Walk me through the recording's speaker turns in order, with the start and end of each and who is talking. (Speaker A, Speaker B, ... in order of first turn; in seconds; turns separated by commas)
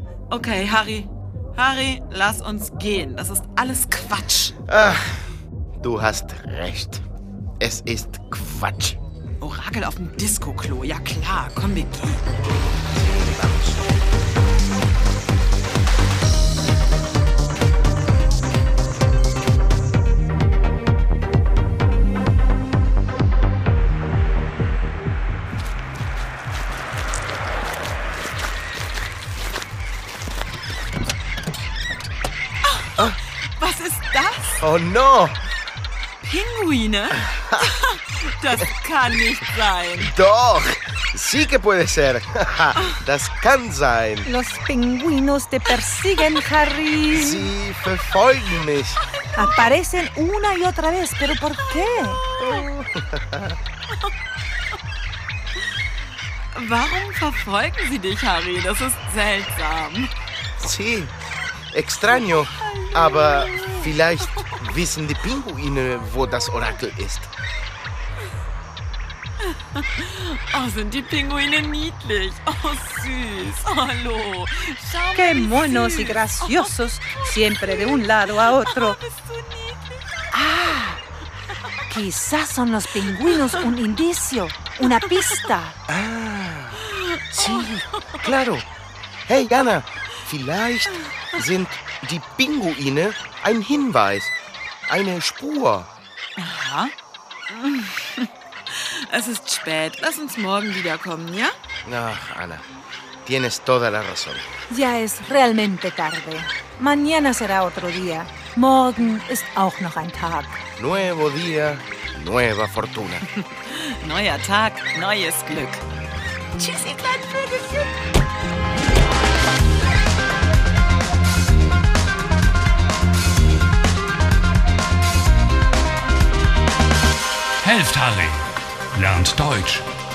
Speaker A: 0.3-4.5, Speaker B: 4.7-5.2, Speaker B: 5.8-7.0, Speaker B: 7.6-9.0, Speaker A: 9.4-12.2, Speaker B: 12.9-13.8, Speaker A: 32.6-34.6, Speaker B: 34.6-35.4, Speaker A: 36.2-40.1, Speaker B: 37.3-37.6, Speaker B: 40.0-44.3, Speaker C: 44.2-47.5, Speaker B: 47.1-49.0, Speaker C: 49.4-52.2, Speaker A: 52.0-52.6, Speaker B: 52.4-53.6, Speaker A: 56.5-60.1, Speaker B: 60.6-61.1, Speaker B: 61.7-67.3, Speaker A: 62.8-64.5, Speaker A: 69.7-80.2, Speaker C: 75.1-79.0, Speaker C: 80.3-81.0, Speaker C: 81.9-85.8, Speaker B: 85.9-88.6, Speaker A: 86.9-88.1, Speaker B: 89.3-94.3, Speaker B: 94.9-95.9, Speaker A: 96.4-96.9, Speaker A: 97.5-101.5, Speaker B: 101.8-102.6, Speaker B: 103.2-104.4, Speaker C: 104.7-110.6, Speaker B: 110.8-113.2, Speaker A: 113.7-115.8, Speaker A: 116.6-117.9, Speaker D: 127.6-129.9